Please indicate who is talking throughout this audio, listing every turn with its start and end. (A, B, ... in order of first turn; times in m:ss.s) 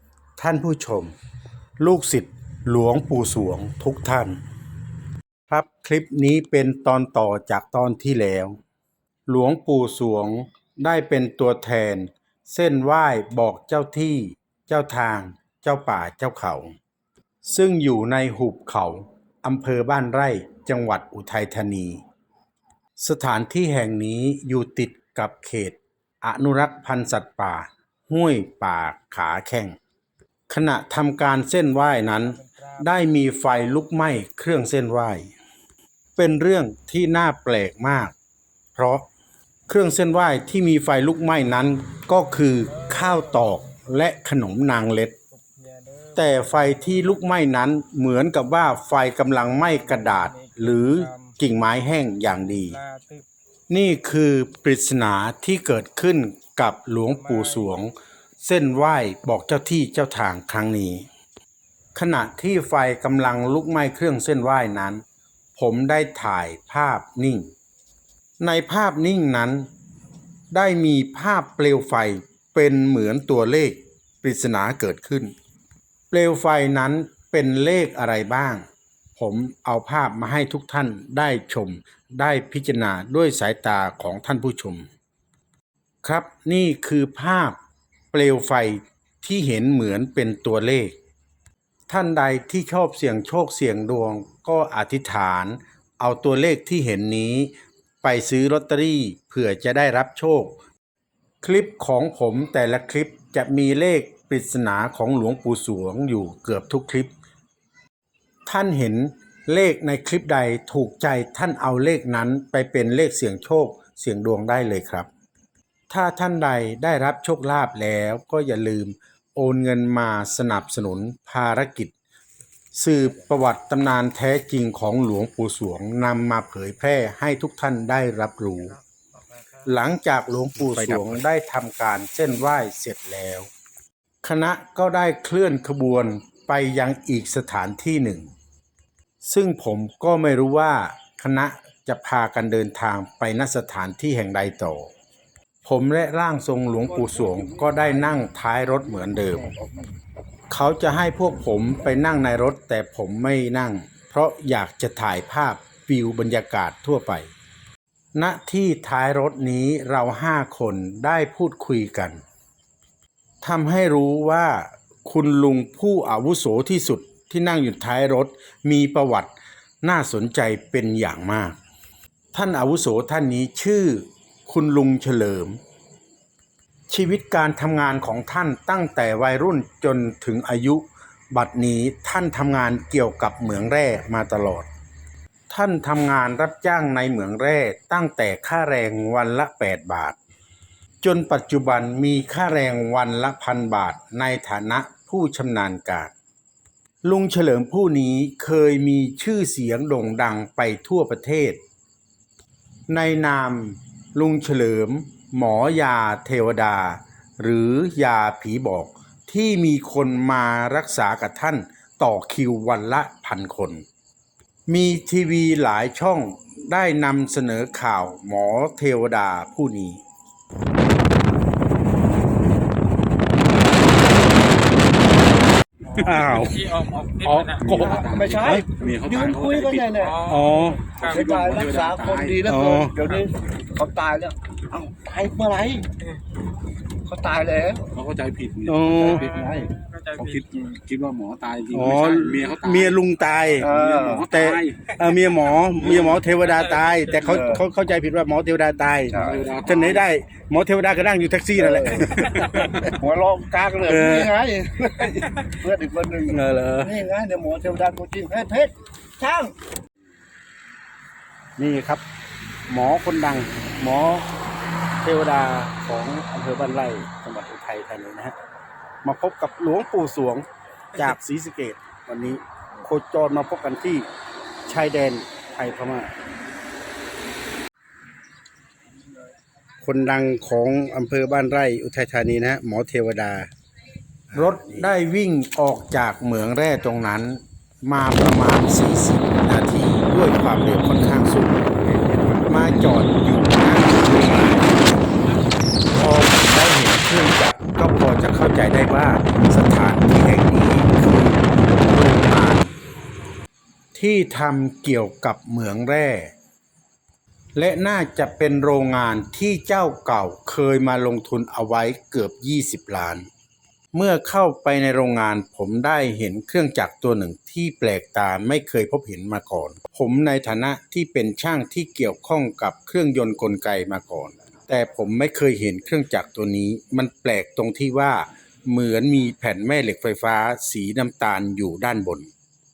0:00.4-0:01.1 A
0:01.8-0:04.4 A
0:05.5-0:08.6 A
0:09.3-0:16.7 A
0:17.4-0:22.0 A
0:23.0-0:29.8 A
0:30.5-0:35.3 A
0:36.2-0:38.2 A
0:38.8-0:39.1 A
0:39.7-0:45.2 A
0:45.5-0:46.1 B
0:46.1-0:52.8 A
0:52.8-0:53.2 B
0:53.7-1:01.1 A
1:02.0-1:05.0 A
1:05.6-1:07.5 A
1:08.4-1:09.7 A
1:10.5-1:15.3 A
1:16.1-1:18.6 A
1:19.2-1:24.9 A
1:26.0-1:27.6 A
1:28.1-1:31.0 A
1:31.9-1:40.6 A
1:41.4-1:47.1 A
1:48.5-1:55.1 A
1:55.9-2:01.9 A
2:02.7-2:08.8 A
2:09.6-2:13.5 A
2:14.2-2:18.3 A
2:19.2-2:24.9 A
2:25.6-2:29.6 A
2:27.0-2:27.9 C
2:29.3-2:29.9 C
2:30.5-2:37.3 A
2:38.2-2:42.2 A
2:43.4-2:51.6 A
2:52.3-2:55.6 A
2:56.9-3:04.7 A
3:05.5-3:10.2 A
3:11.0-3:16.1 A
3:17.0-3:21.6 A
3:22.9-3:33.8 A
3:34.7-3:40.0 A
3:45.9-3:47.8 B
3:46.0-3:46.6 A
3:47.3-3:48.6 A
3:47.5-3:52.8 D
3:47.8-3:50.2 C
3:50.0-3:51.2 B
3:50.3-3:50.8 A
3:51.0-3:55.9 C
3:52.5-3:52.9 A
3:57.0-3:57.9 C
3:57.9-4:05.4 D
3:58.7-3:59.2 A
3:59.1-4:00.3 B
3:59.3-3:59.7 C
4:01.8-4:03.7 A
4:03.6-4:04.3 C
4:04.3-4:12.4 A
4:07.2-4:07.6 C
4:09.1-4:09.5 C
4:09.1-4:10.1 D
4:11.6-4:12.1 C
4:12.0-4:12.9 D
4:12.9-4:19.6 C
4:13.9-4:14.3 A
4:16.3-4:16.9 A
4:21.6-4:22.0 A
4:22.7-4:24.3 A
4:25.0-4:28.4 A
4:29.0-4:30.4 A
4:31.0-4:34.1 A
4:34.7-4:36.1 A
4:39.8-4:43.5 A
4:44.3-4:54.7 A
4:55.9-5:02.7 A
5:03.9-5:06.3 A
5:07.6-5:13.3 A
5:13.9-5:32.3 A